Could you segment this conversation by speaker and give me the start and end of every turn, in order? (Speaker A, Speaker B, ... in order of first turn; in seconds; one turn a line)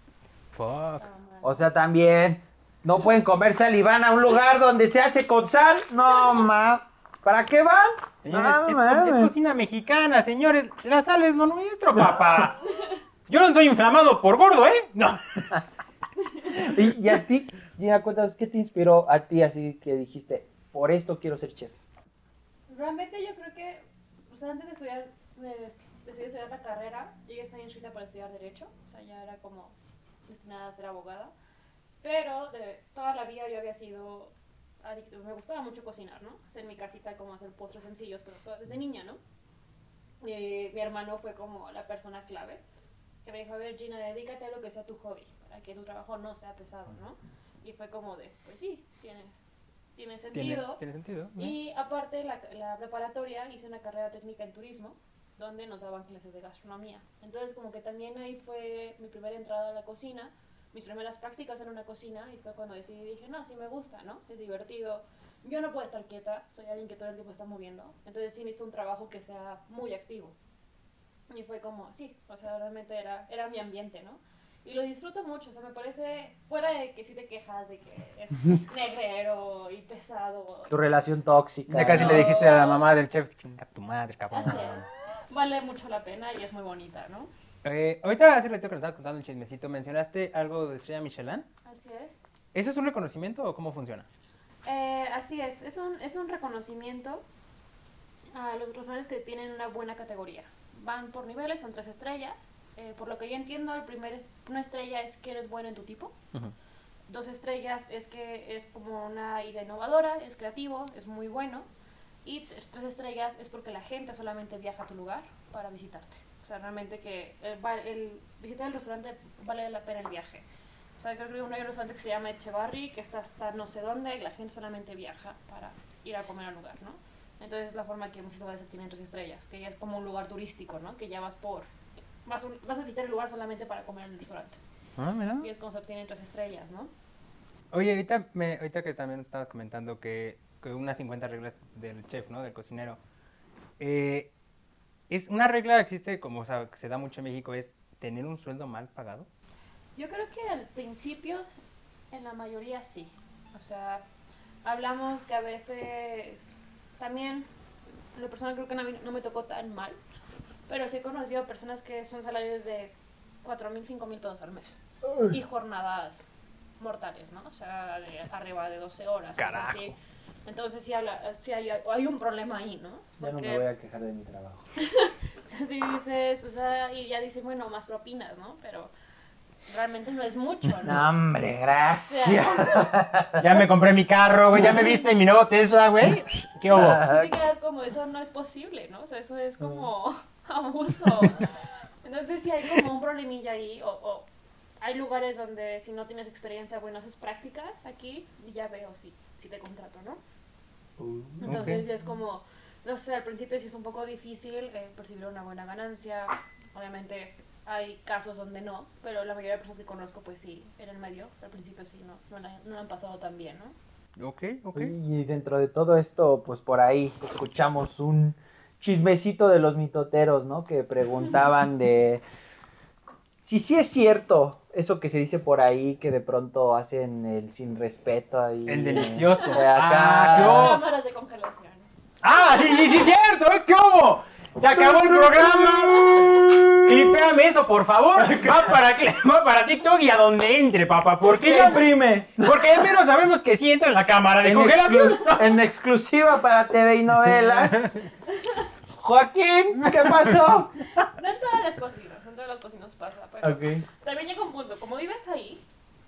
Speaker A: 0.5-1.1
Speaker B: 1.0-1.6
Speaker C: 1.4-9.3
Speaker A: 8.2-12.7
Speaker A: 13.3-15.6
Speaker C: 16.5-21.8
Speaker B: 22.7-29.7
Speaker B: 30.3-31.3
Speaker B: 32.0-39.2
Speaker B: 40.2-42.6
Speaker B: 43.2-49.4
Speaker B: 50.0-50.8
Speaker A: 50.3-51.6
Speaker B: 51.4-70.3
Speaker B: 71.3-80.7
Speaker C: 80.7-82.3
Speaker A: 81.7-84.9
Speaker B: 81.9-82.8
Speaker B: 84.3-87.3
Speaker A: 87.6-91.5
Speaker B: 91.7-92.2
Speaker A: 92.5-94.1
Speaker B: 94.7-97.2
Speaker B: 98.3-106.2
Speaker B: 107.1-111.7
Speaker B: 112.2-120.4
Speaker B: 121.0-131.7
Speaker B: 132.2-134.6
Speaker A: 135.0-135.5
Speaker B: 135.4-136.9
Speaker A: 137.7-143.0
Speaker A: 143.8-144.3
Speaker A: 145.1-149.3
Speaker B: 150.0-151.6
Speaker B: 152.1-154.1
Speaker B: 154.7-157.5
Speaker B: 158.1-160.0
Speaker B: 160.7-166.2
Speaker B: 166.8-169.9
Speaker A: 169.4-169.9
Speaker B: 170.5-173.7
Speaker C: 173.2-174.6
Speaker B: 174.8-178.9
Speaker B: 179.7-181.1
Speaker C: 180.8-183.5
Speaker B: 182.1-182.9
Speaker A: 183.4-187.0
Speaker C: 186.7-187.3
Speaker B: 187.0-194.3
Speaker B: 194.8-200.2
Speaker C: 201.0-201.7
Speaker A: 201.4-201.8
Speaker B: 201.4-213.8
Speaker A: 214.2-214.9
Speaker C: 214.8-222.2
Speaker C: 223.4-230.8
Speaker A: 228.7-230.8
Speaker B: 229.0-229.7
Speaker B: 230.3-231.9
Speaker A: 232.2-245.6
Speaker C: 234.6-237.1
Speaker C: 241.3-242.8
Speaker C: 244.4-248.1
Speaker A: 247.4-248.1
Speaker C: 249.0-250.8
Speaker B: 251.0-255.6
Speaker C: 253.4-253.9